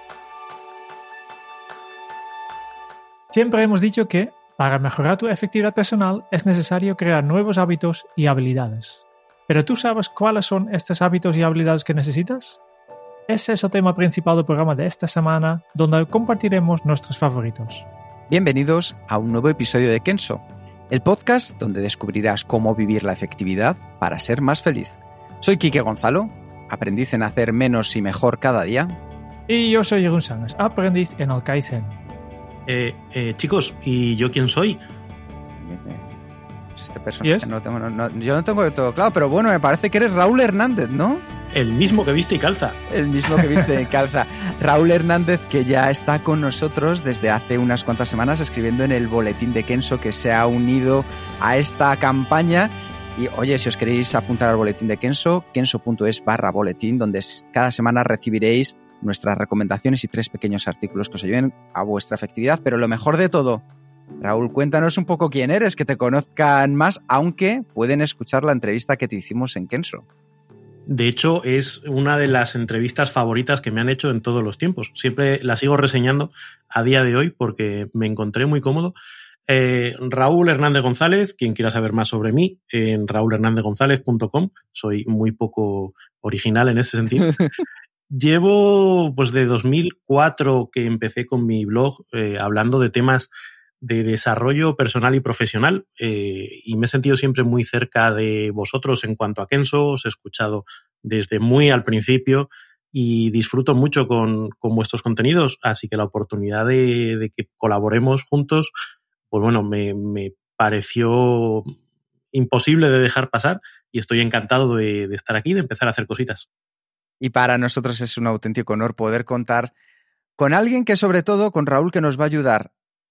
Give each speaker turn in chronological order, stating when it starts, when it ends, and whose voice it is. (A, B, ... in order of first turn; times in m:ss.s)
0:03.3-0:12.6 A
0:13.3-0:17.9 A
0:18.3-0:29.0 B
0:29.5-0:32.0 A
0:32.7-0:34.8 C
0:35.6-0:36.1 B
0:36.8-0:41.2 B
0:37.2-0:37.5 A
0:41.5-0:42.8 C
0:42.9-1:03.6 B
1:04.2-1:10.0 B
1:10.9-1:18.9 C
1:19.5-1:27.4 C
1:28.1-1:33.3 C
1:33.8-1:48.7 C
1:49.3-1:51.7 C
1:52.3-1:56.5 C
1:57.2-1:59.7 B
2:00.4-2:02.7 B